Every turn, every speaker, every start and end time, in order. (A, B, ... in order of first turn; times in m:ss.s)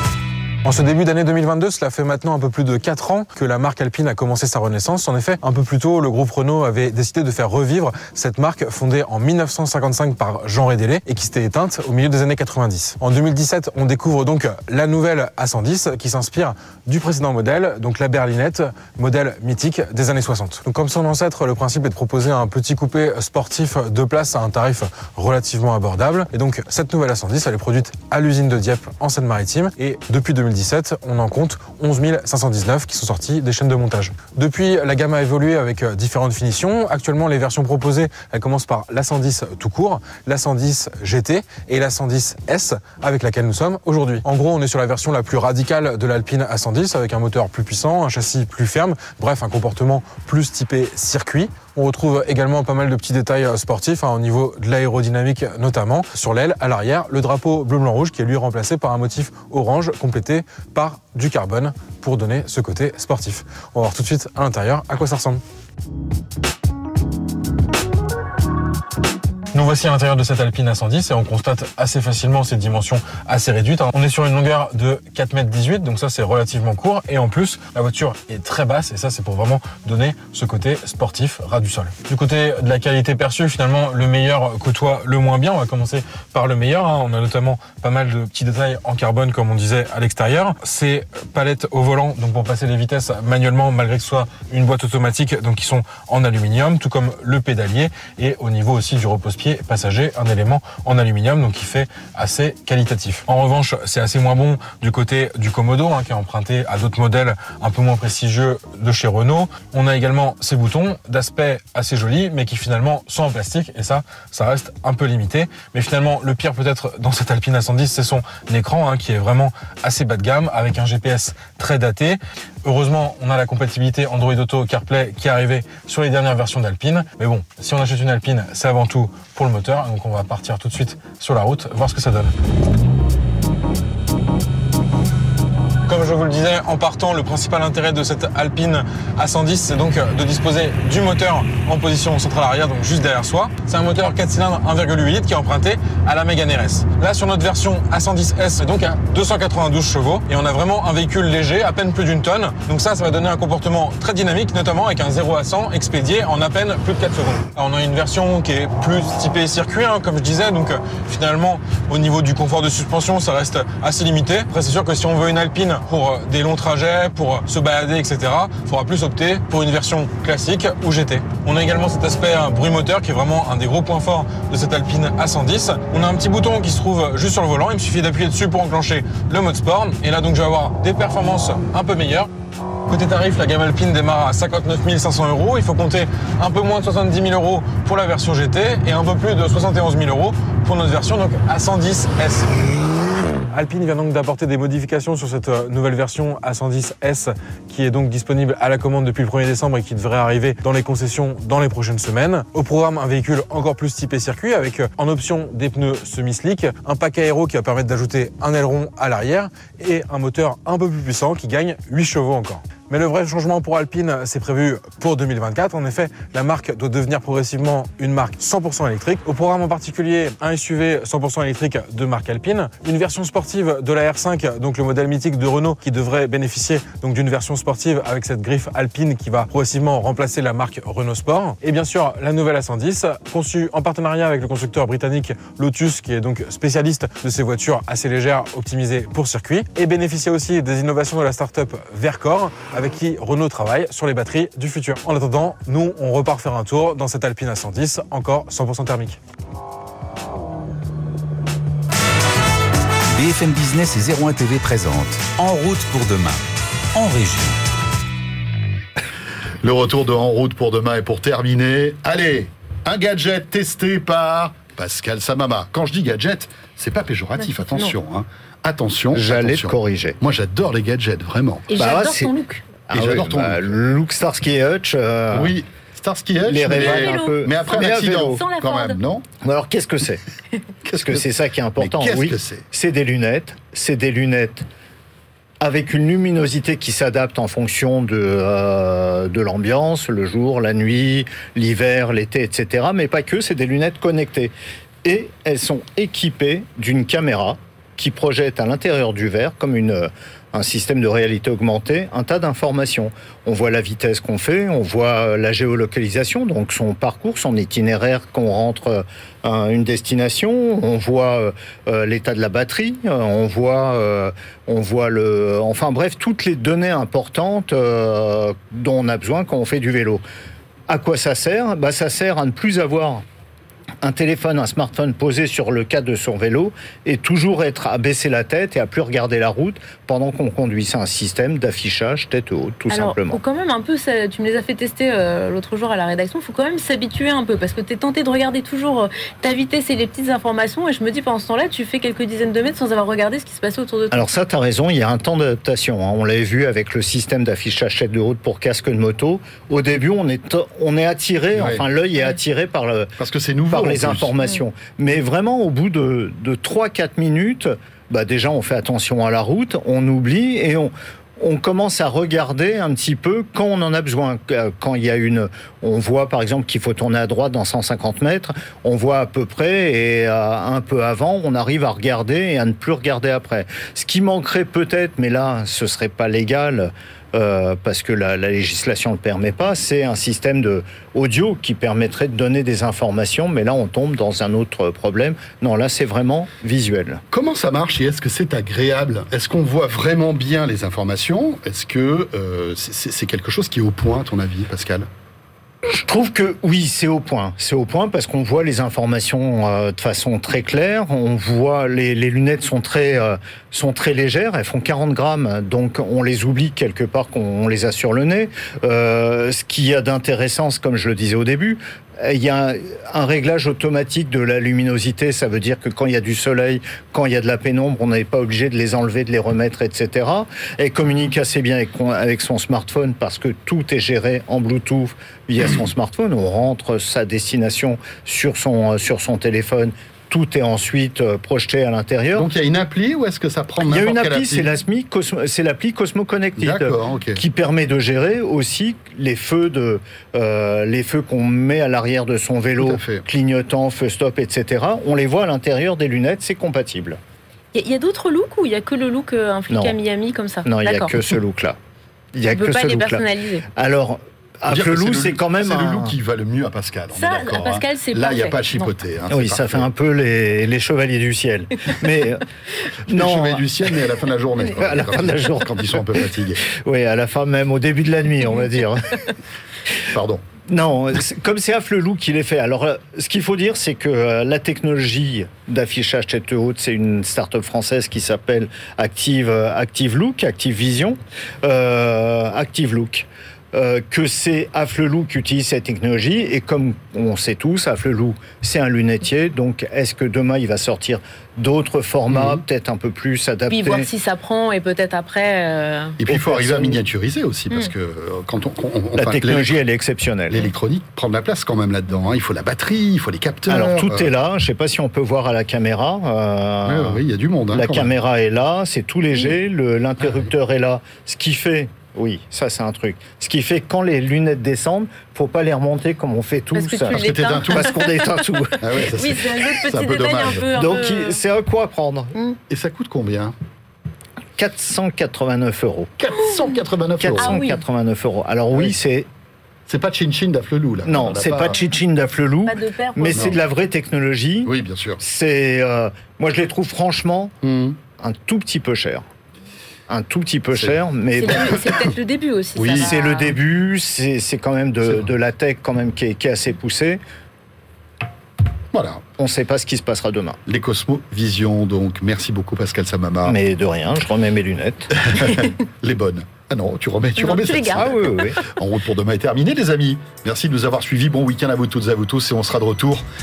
0:00.6-1:05.4 A
1:09.5-2:12.3 A
2:15.9-3:02.3 A
3:02.9-3:12.6 A
3:13.5-4:09.2 A
4:13.1-4:16.4 B
4:16.9-4:17.6 B
4:19.6-4:31.7 C
4:27.4-4:28.0 D
4:29.1-4:30.2 E
4:31.7-4:32.6 D
4:31.8-4:32.3 E
4:32.9-4:35.6 E
4:32.9-4:33.7 C
4:35.3-4:39.3 C
4:36.4-4:38.4 E
4:36.7-4:39.0 D
4:39.4-4:40.2 E
4:40.9-4:44.7 E
4:41.8-4:42.6 C
4:45.6-4:54.5 E
4:55.0-5:20.2 E
5:20.9-5:23.2 E
5:24.0-5:33.4 E
5:32.9-5:44.3 D
5:44.1-5:53.1 E
5:51.6-5:51.8 C
5:53.2-5:54.3 C
5:53.7-6:27.2 E
6:27.3-6:35.1 C
6:35.9-7:12.5 E
7:12.4-7:14.7 C
7:13.8-7:27.2 E
7:16.6-7:17.4 C
7:22.8-7:23.2 C
7:27.7-7:31.1 D
7:29.7-7:30.0 E
7:30.6-7:31.8 E
7:32.4-7:36.2 E
7:32.5-7:33.6 D
7:34.7-7:39.9 C
7:37.1-7:38.9 D
7:39.3-7:42.5 E
7:43.0-7:44.1 E
7:43.1-7:46.6 C
7:44.7-7:49.3 E
7:50.1-7:50.4 C
7:50.6-8:14.1 E
8:12.3-8:12.6 C
8:13.7-8:16.2 D
8:16.2-8:19.8 C
8:16.3-8:17.0 E
8:19.2-8:20.7 E
8:20.5-8:24.3 C
8:23.7-8:27.2 E
8:26.9-8:28.1 C
8:27.7-8:39.0 E
8:36.8-8:38.3 D
8:37.1-8:38.1 C
8:38.8-8:40.7 C
8:39.0-8:41.4 D
8:40.7-8:42.4 E
8:42.7-8:43.6 C
8:44.6-8:46.1 E
8:46.2-8:47.6 C
8:47.2-8:49.3 E
8:47.4-8:47.8 D
8:49.9-8:51.8 C
8:51.0-8:57.6 E
8:52.7-8:53.5 D
8:53.3-8:53.6 C
8:54.7-8:55.2 C
8:57.6-8:58.0 C
8:58.2-8:59.2 E
9:00.1-9:01.9 E
9:01.4-9:03.6 D
9:02.8-9:03.1 C
9:02.9-9:07.2 E
9:08.9-9:09.2 C
9:09.4-9:10.6 E
9:10.7-9:13.6 C
9:13.4-9:15.5 E
9:15.1-9:23.2 C
9:17.4-9:18.6 D
9:17.9-9:18.6 E